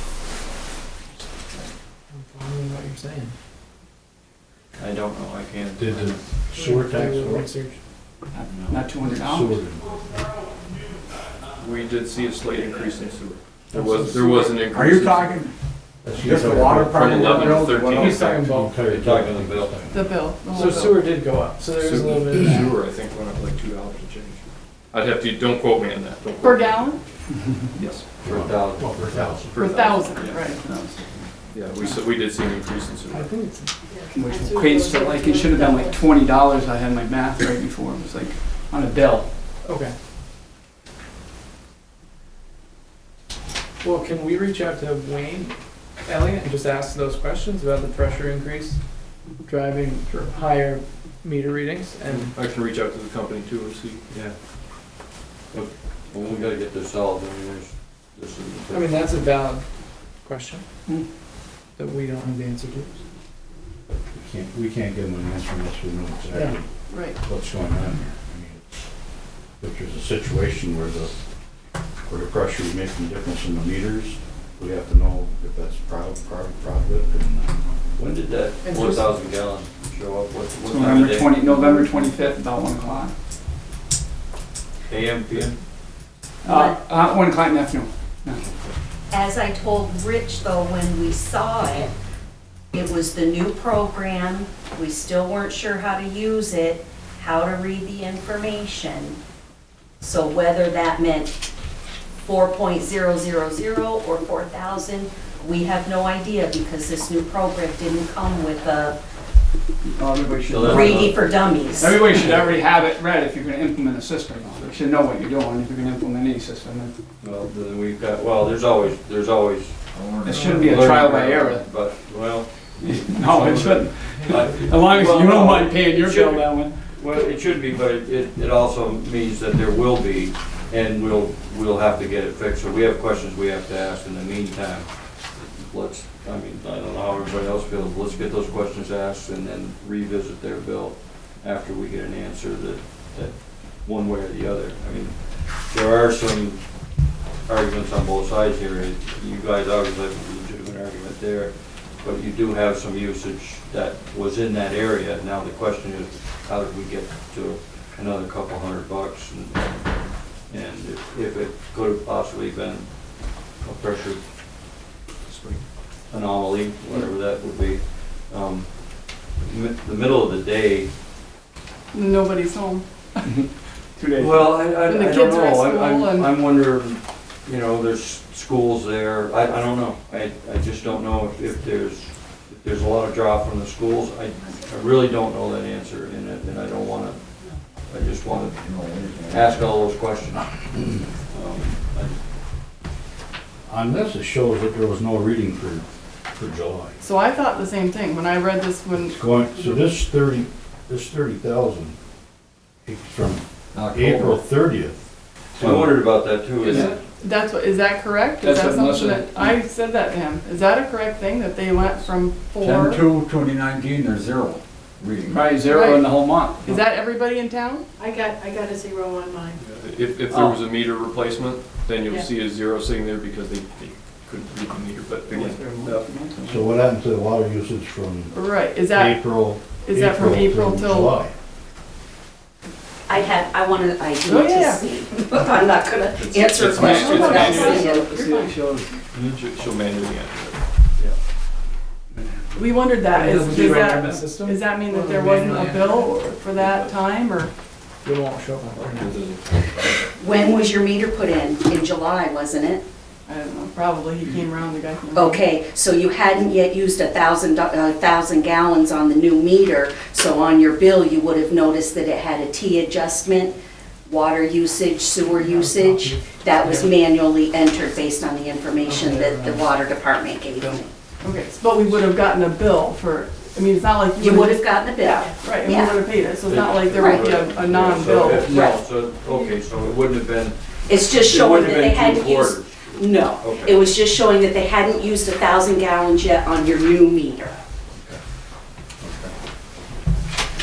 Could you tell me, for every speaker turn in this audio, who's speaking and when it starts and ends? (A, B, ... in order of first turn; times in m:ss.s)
0:02.1-0:03.3 A
0:04.8-0:06.3 B
0:05.8-0:07.5 C
0:06.5-0:07.8 A
0:08.3-0:09.6 D
0:08.5-0:08.8 B
0:09.0-0:10.4 C
0:11.6-0:15.4 E
0:13.7-0:14.7 A
0:14.7-0:15.5 F
0:16.0-0:17.3 C
0:16.1-0:18.1 F
0:16.8-0:18.2 E
0:17.2-0:18.9 A
0:17.9-0:20.1 C
0:18.9-0:19.8 B
0:19.9-0:21.1 G
0:20.5-0:22.6 A
0:21.7-0:28.0 E
0:26.4-0:27.0 G
0:28.2-0:29.5 B
0:28.2-0:29.6 C
0:29.4-0:30.5 E
0:29.5-0:31.2 G
0:31.5-0:33.3 E
0:33.1-0:33.7 A
0:33.9-0:36.0 H
0:34.1-0:39.3 D
0:39.6-0:39.9 A
0:43.8-0:48.8 A
0:49.4-0:52.3 A
0:52.0-0:54.0 E
0:54.1-0:54.9 B
0:55.5-0:59.3 B
0:58.7-1:00.6 A
1:01.8-1:03.0 A
1:03.9-1:08.8 C
1:06.9-1:07.2 G
1:09.6-1:11.1 C
1:12.1-1:17.6 C
1:17.9-1:21.7 B
1:20.7-1:23.1 D
1:24.9-1:25.6 B
1:26.4-1:28.4 D
1:26.4-1:26.8 I
1:28.4-1:28.7 B
1:29.1-1:31.9 I
1:32.7-1:39.2 I
1:40.0-1:41.4 I
1:42.2-1:49.0 I
1:50.0-1:51.1 D
1:50.2-1:50.4 F
1:50.5-1:51.3 B
1:50.6-1:52.0 I
1:51.8-1:56.9 D
1:57.2-1:59.8 B
1:59.9-2:00.7 F
2:00.2-2:01.6 D
2:00.3-2:00.7 A
2:00.7-2:26.6 B
2:02.8-2:06.7 D
2:27.4-2:44.8 B
2:45.3-2:45.6 E
2:46.1-2:50.9 B
2:51.9-2:53.3 G
2:53.2-2:54.5 D
2:54.2-3:07.3 B
2:54.9-2:56.2 G
3:07.8-3:10.7 B
3:08.6-3:09.6 F
3:11.3-3:12.2 B
3:13.7-3:17.0 C
3:17.0-3:19.7 G
3:19.0-3:22.0 C
3:22.8-3:25.0 C
3:23.7-3:24.4 B
3:25.5-3:27.0 B
3:25.6-3:26.0 C
3:26.6-3:27.0 D
3:27.2-3:33.0 G
3:28.4-3:29.6 D
3:32.6-3:35.6 F
3:35.3-3:36.8 D
3:35.7-3:37.8 G
3:38.0-3:39.6 H
3:39.6-3:46.1 E
3:40.3-3:40.6 D
3:45.3-3:46.6 D
3:46.4-3:48.4 C
3:48.3-3:49.3 G
3:48.9-3:51.3 C
3:49.8-3:51.2 G
3:53.1-3:58.1 I
3:54.2-3:54.9 G
3:56.2-3:57.8 E
3:56.7-3:59.0 D
3:56.8-3:58.6 G
3:59.1-4:00.6 E
4:02.6-4:07.5 G
4:03.1-4:06.1 A
4:03.4-4:04.1 D
4:06.3-4:06.9 E
4:08.0-4:09.2 A
4:08.7-4:09.9 E
4:10.1-4:12.8 I
4:13.2-4:15.4 G
4:15.1-4:23.5 I
4:24.0-4:30.9 I
4:25.2-4:26.9 A
4:28.8-4:29.6 A
4:31.2-4:34.6 G
4:34.2-4:36.0 I
4:35.4-4:38.7 G
4:36.3-4:43.9 B
4:36.9-4:37.3 I
4:38.5-4:38.8 I
4:40.9-4:47.6 I
4:49.0-4:49.3 B